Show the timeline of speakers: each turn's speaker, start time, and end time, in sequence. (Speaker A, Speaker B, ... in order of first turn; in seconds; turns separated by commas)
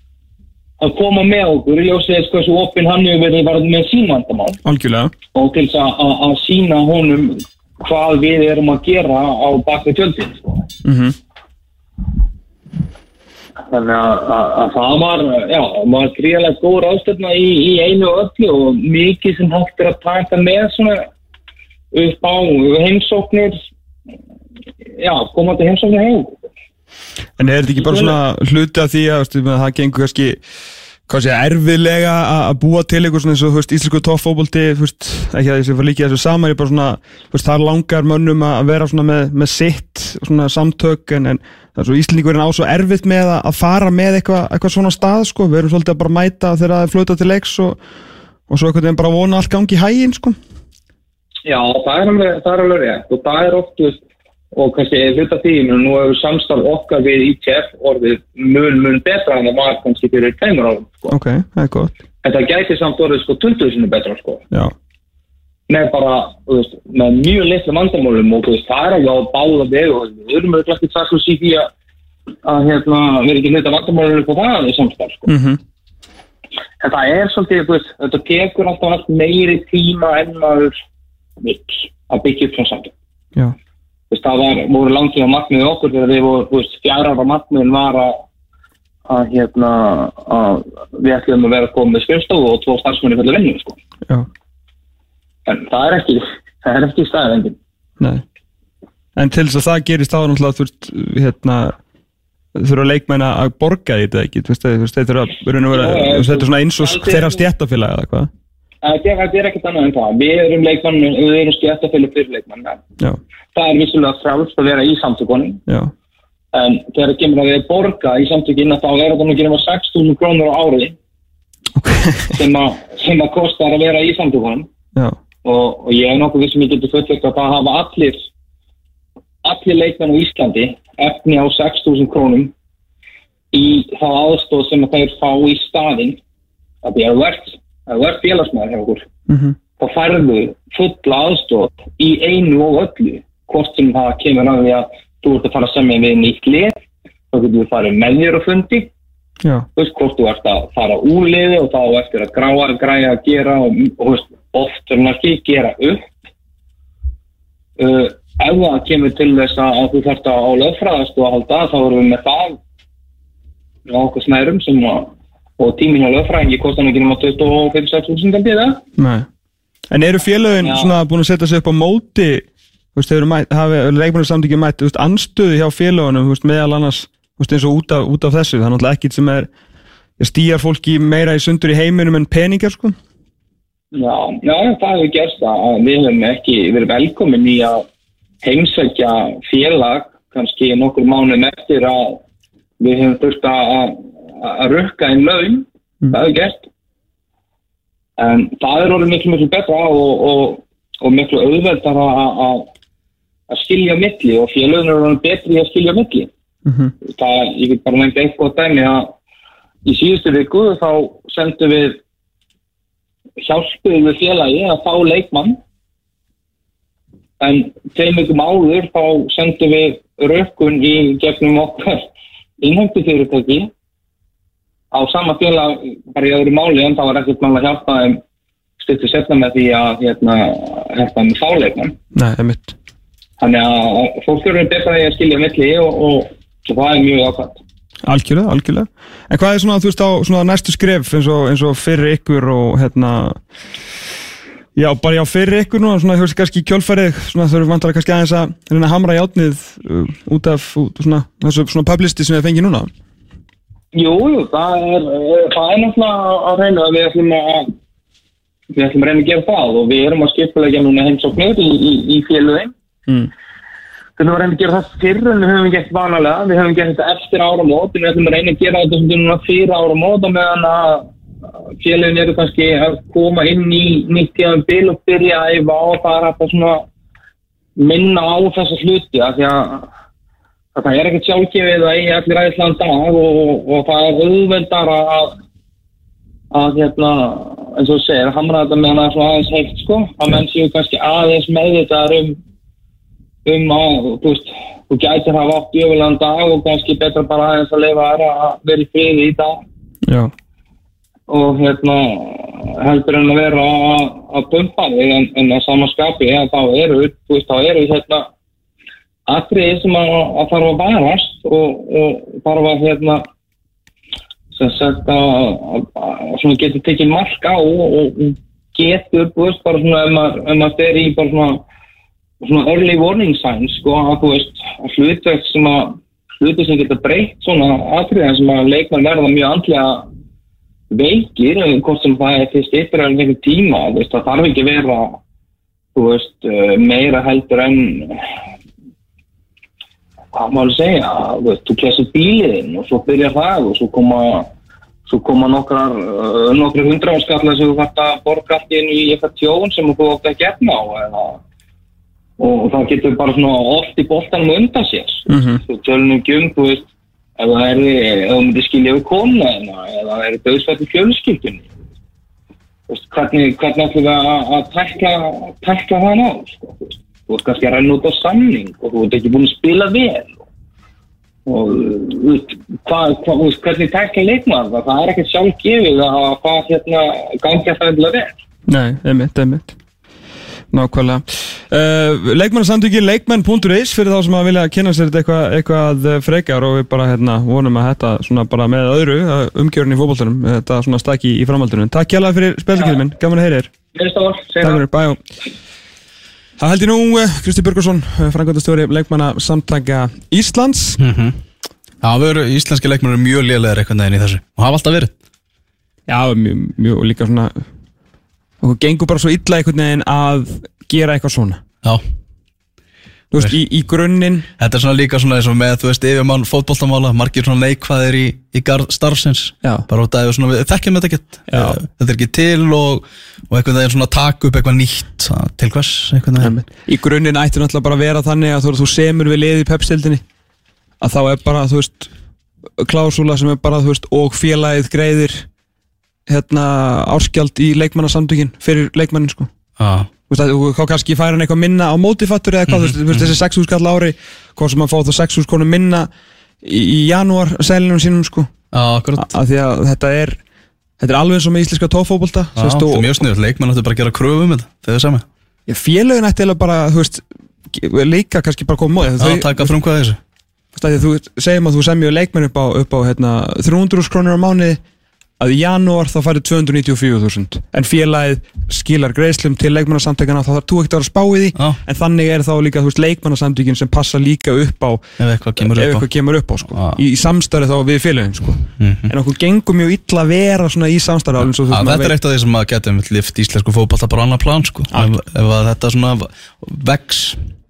Speaker A: 0.8-4.6, Speaker B: 4.6-5.1, Speaker A: 5.3-10.7, Speaker B: 10.8-11.2, Speaker A: 13.7-21.1, Speaker A: 21.9-23.6, Speaker A: 25.0-26.4, Speaker B: 27.4-30.4, Speaker A: 27.8-28.2, Speaker B: 31.1-47.8, Speaker B: 48.5-50.4, Speaker A: 51.4-54.0, Speaker A: 54.5-61.1, Speaker B: 61.1-62.0, Speaker A: 62.2-64.4, Speaker A: 65.7-71.7, Speaker A: 72.4-75.3, Speaker B: 75.3-75.6, Speaker A: 76.8-80.7, Speaker A: 81.4-82.9, Speaker A: 84.1-88.2, Speaker A: 89.1-93.8, Speaker A: 95.5-97.6, Speaker B: 99.2-101.8, Speaker B: 102.5-108.3, Speaker A: 105.7-107.4, Speaker A: 108.8-112.8, Speaker A: 113.5-115.6, Speaker B: 115.7-115.9, Speaker A: 116.5-121.0, Speaker B: 121.8-122.4, Speaker A: 122.3-124.7, Speaker A: 125.4-128.2, Speaker A: 129.4-132.5, Speaker A: 133.5-136.2, Speaker A: 136.8-139.1, Speaker B: 139.3-139.6, Speaker A: 139.8-148.9, Speaker A: 149.8-156.1, Speaker A: 157.8-162.6, Speaker A: 163.9-168.8, Speaker B: 169.0-169.3, Speaker B: 169.9-179.5, Speaker A: 170.6-170.9, Speaker B: 180.2-182.9, Speaker A: 183.9-187.8, Speaker A: 188.4-192.2, Speaker A: 192.8-196.6, Speaker A: 198.2-202.7, Speaker A: 203.5-206.3, Speaker B: 206.7-206.9, Speaker A: 207.1-209.1, Speaker A: 209.8-212.0, Speaker A: 213.4-215.6, Speaker A: 217.4-222.1, Speaker A: 222.6-223.7, Speaker A: 224.9-228.2, Speaker A: 228.8-231.9, Speaker B: 232.1-232.7, Speaker A: 233.4-237.6, Speaker B: 238.1-243.4, Speaker B: 244.8-252.9, Speaker A: 253.9-257.7, Speaker A: 258.7-262.7, Speaker A: 264.2-271.1, Speaker A: 271.8-276.8, Speaker A: 277.8-279.9, Speaker A: 280.7-285.4, Speaker A: 286.5-292.4, Speaker A: 293.4-299.6, Speaker B: 300.1-300.3, Speaker A: 301.3-308.3, Speaker A: 309.3-313.3, Speaker A: 314.5-321.6, Speaker A: 322.4-330.1, Speaker A: 330.9-335.2, Speaker A: 335.9-338.3, Speaker A: 340.3-344.5, Speaker A: 345.1-351.4, Speaker A: 352.4-361.7, Speaker B: 355.3-355.6, Speaker A: 362.9-370.4, Speaker A: 371.4-378.4, Speaker B: 378.7-379.7, Speaker B: 380.7-393.7, Speaker A: 393.9-394.9, Speaker B: 394.6-395.2, Speaker B: 396.6-401.0, Speaker C: 401.0-401.4, Speaker C: 402.0-405.1, Speaker B: 406.1-407.6, Speaker B: 408.6-411.6, Speaker B: 413.3-414.5, Speaker C: 414.6-426.5, Speaker B: 421.5-421.8, Speaker B: 426.4-430.2, Speaker B: 431.0-432.1, Speaker B: 432.8-435.5, Speaker B: 436.3-439.5, Speaker C: 439.8-440.1, Speaker B: 440.3-446.1, Speaker C: 442.7-443.3, Speaker B: 446.6-448.5, Speaker C: 448.7-449.3, Speaker B: 449.1-450.4, Speaker B: 451.0-453.1, Speaker C: 452.6-455.2, Speaker B: 455.7-459.8, Speaker C: 459.2-460.2, Speaker B: 460.7-464.8, Speaker B: 465.4-475.0, Speaker C: 475.2-476.1, Speaker B: 475.6-482.1, Speaker C: 476.7-477.0, Speaker C: 478.8-479.1, Speaker C: 481.6-487.4